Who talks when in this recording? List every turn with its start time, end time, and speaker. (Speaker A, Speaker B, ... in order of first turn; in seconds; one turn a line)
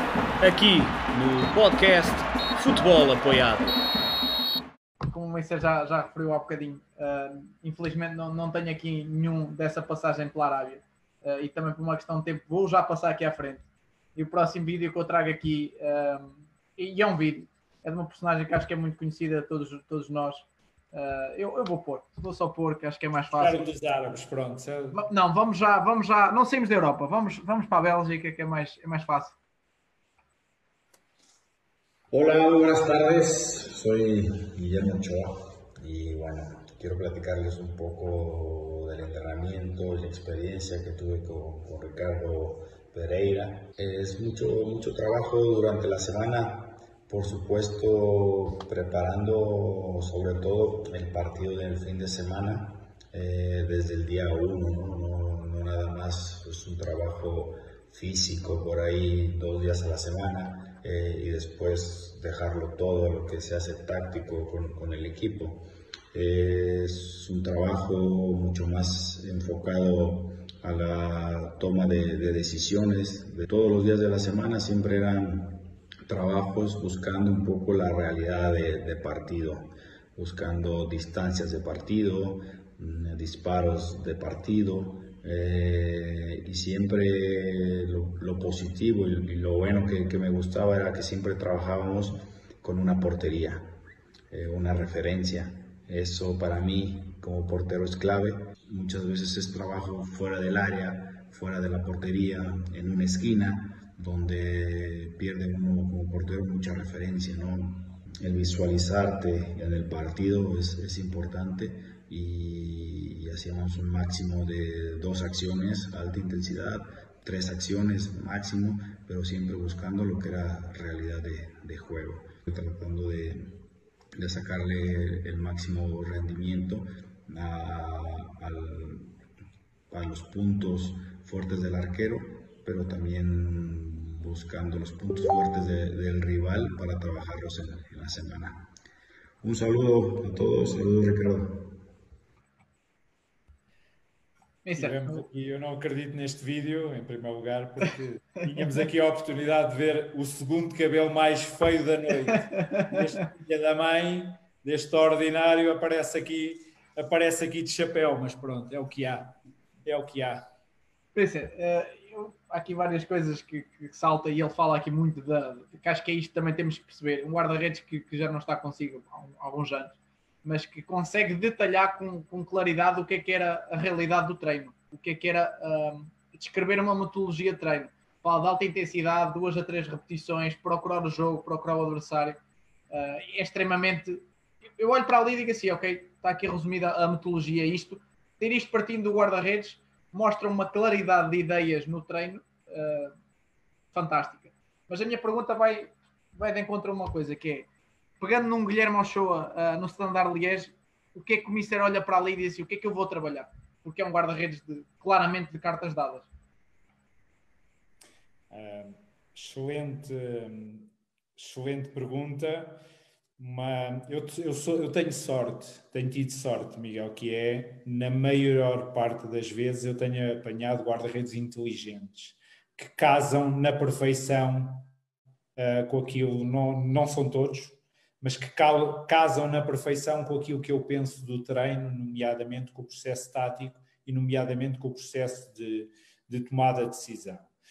Speaker A: 0.4-3.8
Speaker B: 5.1-13.6
Speaker B: 14.2-23.7
Speaker C: 23.4-25.0
Speaker B: 24.9-29.4
Speaker D: 32.1-129.2
Speaker D: 129.9-138.7
Speaker D: 139.4-141.8
Speaker B: 144.7-145.2
Speaker C: 144.8-160.4
Speaker B: 152.3-153.0
Speaker B: 161.1-182.4
Speaker B: 182.9-184.2
Speaker B: 184.8-193.1
Speaker B: 193.9-197.7
Speaker B: 198.2-206.3
Speaker C: 208.5-212.8
Speaker C: 213.4-224.9
Speaker C: 225.6-237.5